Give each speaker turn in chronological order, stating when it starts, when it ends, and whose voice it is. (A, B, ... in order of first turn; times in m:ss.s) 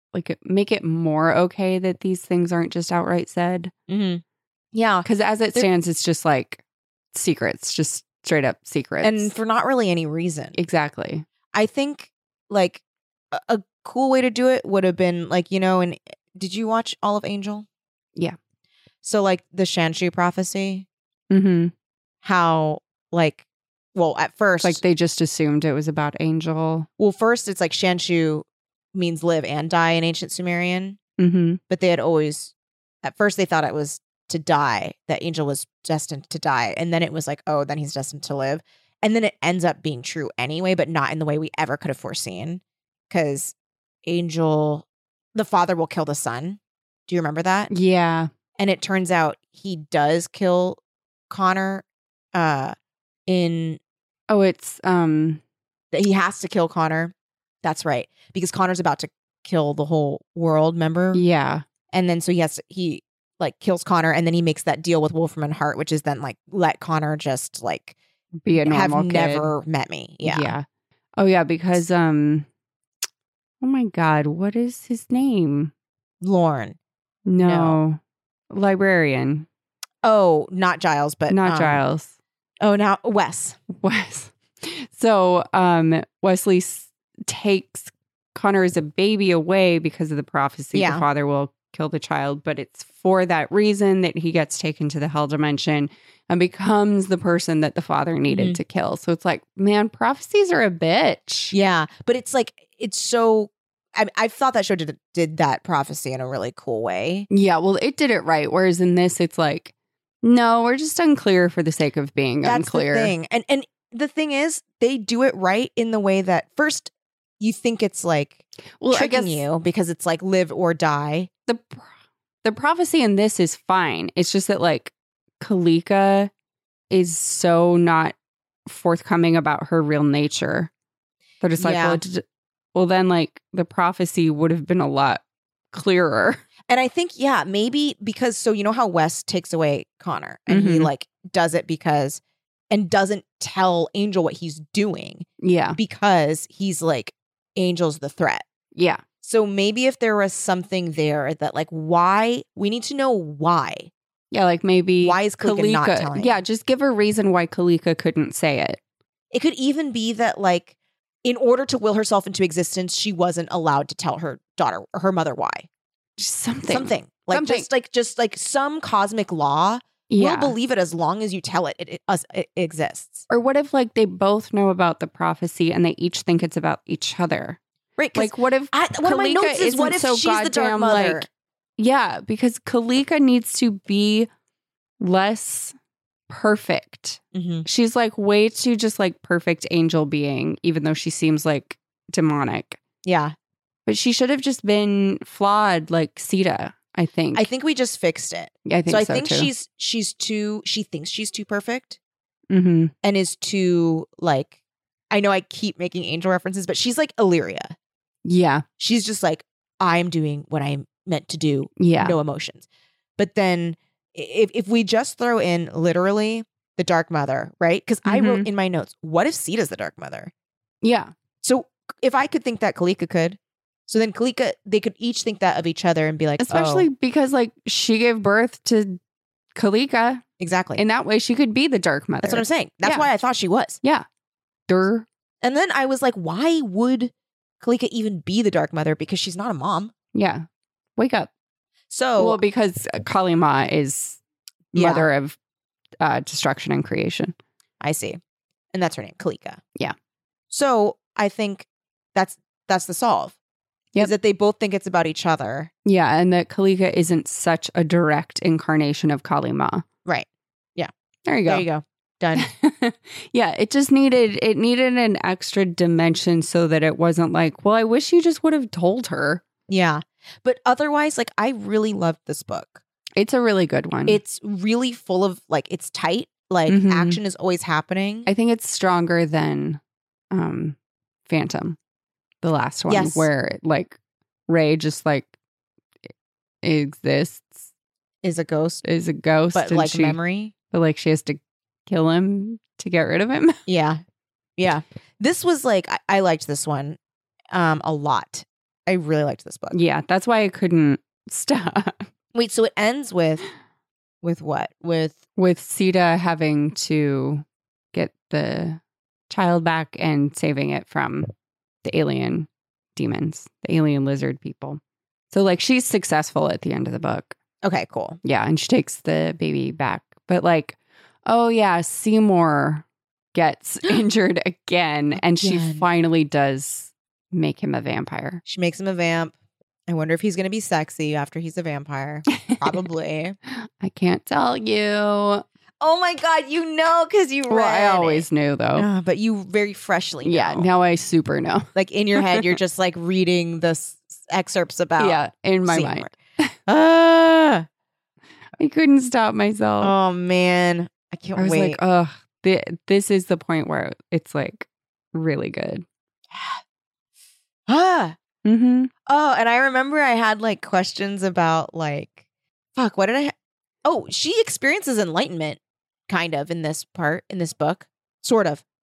0:00.1-0:03.7 A
0:03.9-0:05.7 B
0:05.0-0:09.4 A
0:09.0-0:10.6 B
0:10.6-0:11.2 A
0:11.5-0:17.7 B
0:19.0-0:20.9 B
0:21.3-0:21.7 A
0:22.2-0:23.4 B
0:24.0-0:24.8 B
0:24.6-0:26.9 A
0:27.0-0:31.0 B
0:31.2-0:31.6 A
0:31.7-0:47.7 B
0:47.7-0:48.3 A
0:48.6-0:50.8 B
0:51.3-0:52.8 B
0:53.3-0:53.8 B
0:54.3-0:55.4 A
0:55.9-1:01.2 B
1:01.1-1:01.6 A
1:01.9-1:08.0 B
1:08.4-1:09.5 A
1:08.6-1:10.5 B
1:10.2-1:10.6 A
1:11.2-1:12.5 A
1:13.6-1:15.7 A
1:16.2-1:16.8 B
1:17.3-1:18.0 A
1:17.4-1:17.8 B
1:18.5-1:19.5 A
1:20.0-1:21.8 B
1:21.3-1:22.1 A
1:22.6-1:23.6 B
1:23.7-1:41.5 A
1:30.7-1:31.0 B
1:38.3-1:38.6 B
1:41.5-1:47.3 B
1:47.3-1:49.7 A
1:50.2-1:53.1 A
1:52.4-2:01.3 B
1:58.8-1:59.4 A
2:01.5-2:01.9 A
2:02.4-2:06.3 A
2:06.9-2:08.2 A
2:08.7-2:10.7 A
2:11.4-2:12.2 A
2:11.6-2:12.0 B
2:12.8-2:16.4 A
2:16.7-2:28.4 B
2:20.5-2:20.9 A
2:25.4-2:25.8 A
2:28.8-2:29.0 A
2:29.2-2:33.9 B
2:34.3-2:38.8 A
2:35.0-2:36.4 B
2:39.3-2:45.7 B
2:46.2-2:47.7 A
2:46.7-2:53.3 B
2:50.1-2:50.6 A
2:53.3-2:57.6 A
2:58.0-3:01.3 B
2:58.1-3:01.3 A
3:01.8-3:04.3 A
3:05.0-3:05.7 A
3:06.3-3:12.8 A
3:07.3-3:07.7 B
3:13.0-3:13.4 B
3:13.9-3:17.5 A
3:17.3-3:22.0 B
3:18.7-3:19.5 A
3:22.5-3:22.9 A
3:23.0-3:24.5 B
3:25.1-3:27.8 B
3:28.2-3:28.6 A
3:28.8-3:32.7 B
3:31.8-3:32.2 A
3:33.2-3:40.3 B
3:38.1-3:38.5 A
3:40.8-3:41.1 A
3:41.4-3:46.9 B
3:46.4-3:49.0 A
3:49.6-3:50.2 A
3:50.4-3:50.8 B
3:50.8-3:53.1 A
3:52.2-3:53.8 B
3:54.7-3:55.1 A
3:55.4-3:59.9 B
4:00.1-4:00.4 A
4:01.0-4:01.3 A
4:01.9-4:02.4 B
4:02.2-4:04.2 A
4:04.7-4:05.4 A
4:04.7-4:05.1 B
4:06.0-4:07.4 A
4:07.8-4:08.2 B
4:08.7-4:09.6 B
4:10.5-4:13.4 B
4:14.0-4:15.7 B
4:15.8-4:19.8 A
4:20.0-4:20.9 B
4:21.3-4:21.7 A
4:21.5-4:22.5 B
4:22.4-4:29.4 A
4:29.7-4:32.8 B
4:33.2-4:34.2 A
4:34.1-4:38.3 B
4:36.7-4:37.2 A
4:38.3-4:39.8 A
4:40.3-4:40.8 A
4:41.3-4:41.8 A
4:42.4-4:44.0 A
4:42.9-4:43.3 B
4:44.5-4:45.3 A
4:46.6-4:47.6 A
4:48.2-4:48.8 B
4:48.8-4:50.2 A
4:49.5-4:50.5 B
4:50.7-4:53.6 A
4:53.7-4:54.0 B
4:54.6-4:57.0 B
4:57.5-4:59.8 B
4:59.7-5:02.1 A
5:02.3-5:03.4 B
5:04.2-5:05.2 B
5:05.4-5:11.3 A
5:11.8-5:14.8 A
5:15.3-5:17.4 A
5:17.6-5:18.2 B
5:18.2-5:28.4 A
5:25.4-5:25.8 B
5:28.5-5:29.4 B
5:29.9-5:33.4 B
5:33.8-5:35.4 A
5:35.8-5:40.7 B
5:37.5-5:38.9 A
5:40.2-5:42.5 A
5:41.8-5:46.1 B
5:45.0-5:46.5 A
5:46.7-5:47.7 B
5:48.6-5:49.9 A
5:49.8-5:51.8 B
5:51.4-5:55.8 A
5:56.3-5:56.6 B
5:57.7-5:58.2 B
5:58.4-5:58.9 A
5:59.1-6:02.2 B
6:02.8-6:08.6 B